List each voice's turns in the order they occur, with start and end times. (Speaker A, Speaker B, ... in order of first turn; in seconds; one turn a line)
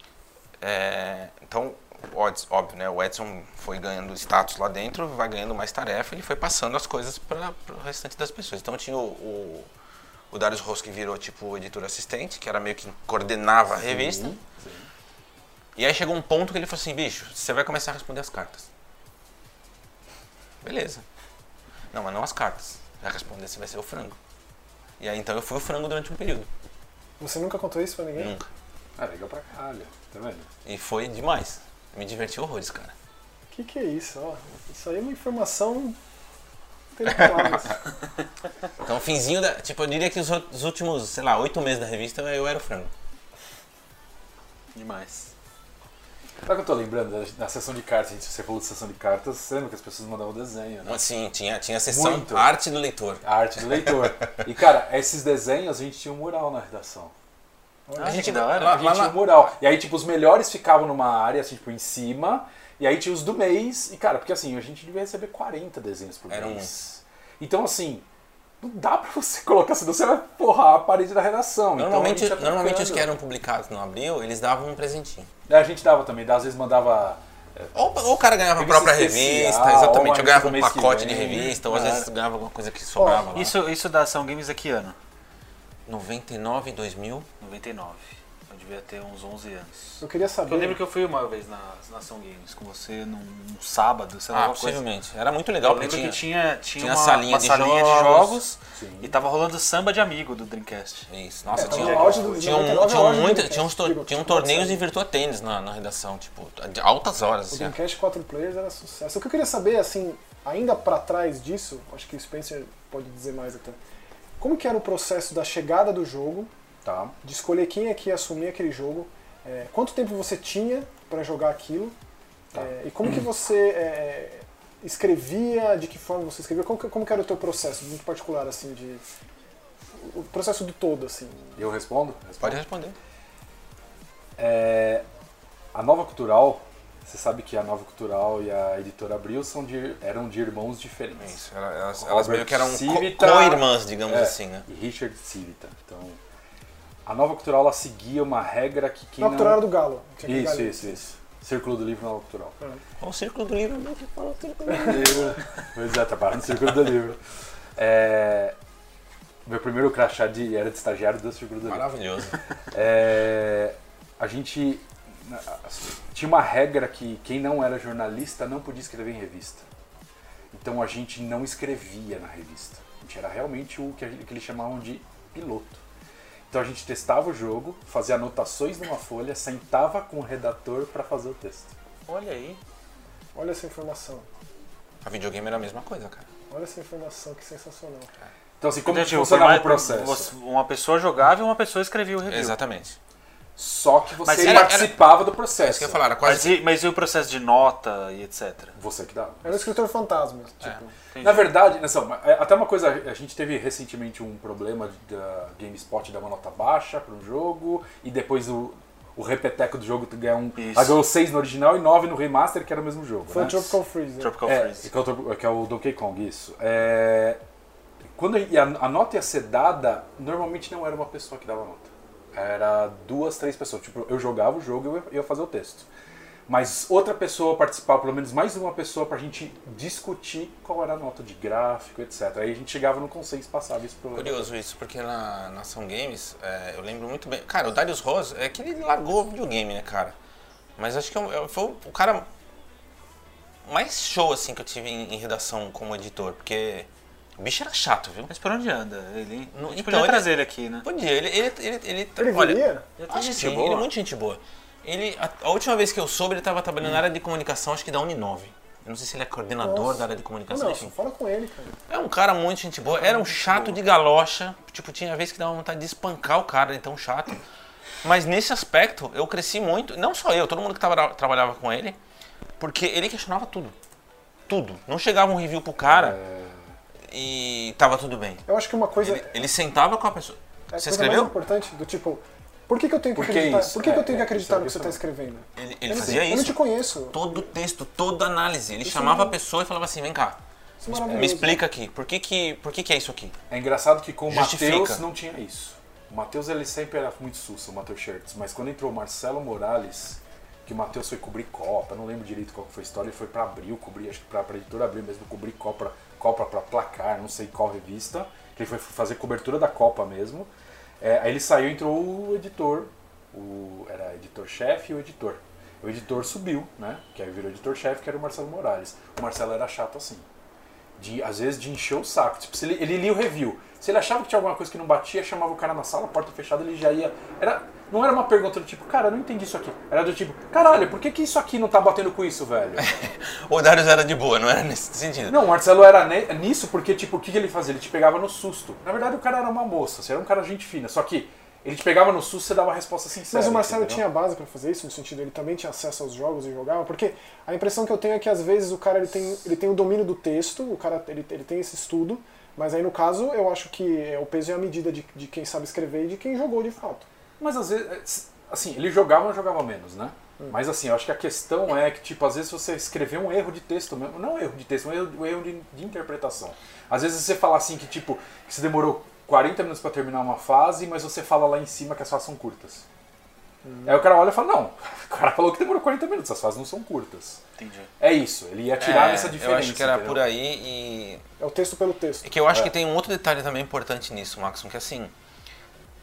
Speaker A: 0.6-9.7
Speaker A: 10.3-14.3
Speaker B: 13.7-14.9
Speaker A: 15.8-18.7
Speaker A: 20.6-21.0
Speaker A: 21.9-24.2
Speaker A: 25.0-26.5
Speaker C: 27.2-28.3
Speaker A: 28.1-28.4
Speaker B: 29.0-30.5
Speaker A: 30.6-32.9
Speaker C: 33.5-36.0
Speaker C: 37.0-37.8
Speaker A: 37.0-37.7
Speaker A: 38.8-42.9
Speaker D: 44.7-45.3
Speaker B: 46.4-51.0
Speaker A: 50.9-54.4
Speaker B: 51.9-52.5
Speaker B: 53.2-57.1
Speaker C: 57.9-58.3
Speaker D: 58.0-58.8
Speaker A: 58.0-59.3
Speaker B: 58.5-68.0
Speaker A: 66.3-66.7
Speaker B: 68.6-73.1
Speaker A: 71.8-75.3
Speaker B: 75.5-77.7
Speaker A: 77.7-83.6
Speaker B: 78.6-81.6
Speaker D: 81.3-82.1
Speaker C: 83.0-83.3
Speaker D: 83.3-85.0
Speaker A: 85.9-87.3
Speaker D: 87.4-94.8
Speaker C: 90.0-90.8
Speaker A: 94.3-96.2
Speaker D: 95.6-101.1
Speaker A: 96.8-98.4
Speaker B: 98.7-99.1
Speaker A: 101.1-107.7
Speaker B: 101.5-102.5
Speaker C: 101.6-104.8
Speaker D: 101.8-102.1
Speaker C: 107.5-113.8
Speaker C: 114.4-116.5
Speaker B: 116.8-117.1
Speaker C: 117.2-122.0
Speaker C: 122.5-129.0
Speaker C: 129.9-131.6
Speaker B: 131.6-132.6
Speaker A: 132.4-132.9
Speaker B: 134.4-135.1
Speaker B: 135.7-141.4
Speaker A: 141.2-144.7
Speaker B: 142.0-146.2
Speaker B: 147.1-149.6
Speaker C: 149.2-151.1
Speaker B: 150.2-152.6
Speaker A: 153.0-155.4
Speaker B: 154.8-157.2
Speaker B: 157.8-158.6
Speaker B: 159.4-161.8
Speaker A: 161.6-162.4
Speaker B: 162.7-169.6
Speaker B: 170.5-175.8
Speaker B: 176.5-181.7
Speaker D: 182.1-182.6
Speaker C: 183.3-184.3
Speaker A: 185.0-186.2
Speaker C: 186.5-188.1
Speaker B: 188.6-190.3
Speaker D: 188.8-192.6
Speaker A: 192.3-193.0
Speaker B: 193.6-196.0
Speaker D: 194.2-194.9
Speaker A: 194.4-196.6
Speaker D: 196.2-198.7
Speaker B: 198.8-199.7
Speaker C: 199.4-200.9
Speaker D: 201.1-201.6
Speaker B: 201.2-213.8
Speaker D: 210.6-211.0
Speaker C: 213.3-214.4
Speaker D: 214.2-214.9
Speaker B: 214.4-217.4
Speaker B: 218.1-225.9
Speaker B: 226.5-234.4
Speaker A: 234.1-240.1
Speaker A: 240.8-242.3
Speaker A: 243.7-248.3
Speaker D: 248.3-250.9
Speaker A: 249.5-250.3
Speaker A: 250.8-260.9
Speaker C: 252.2-252.8
Speaker D: 253.0-253.9
Speaker C: 259.6-261.8
Speaker A: 261.9-267.4
Speaker D: 263.0-263.8
Speaker A: 268.0-272.0
Speaker A: 272.6-273.7
Speaker A: 274.5-276.2
Speaker B: 275.8-276.8
Speaker A: 277.1-278.4
Speaker C: 278.5-279.4
Speaker A: 279.0-281.3
Speaker C: 280.7-287.5
Speaker B: 283.1-285.0
Speaker A: 285.6-293.4
Speaker B: 286.0-286.3
Speaker C: 288.8-289.4
Speaker C: 290.8-291.6
Speaker B: 291.1-291.4
Speaker B: 293.5-320.2
Speaker A: 294.3-295.0
Speaker B: 321.0-332.9
Speaker A: 332.8-335.4
Speaker B: 335.3-344.0
Speaker C: 343.3-357.1
Speaker B: 357.4-372.9
Speaker C: 373.6-374.0
Speaker B: 373.9-377.4
Speaker D: 377.6-377.9
Speaker B: 378.0-380.2
Speaker A: 378.8-381.2
Speaker C: 381.4-382.2
Speaker A: 382.2-385.1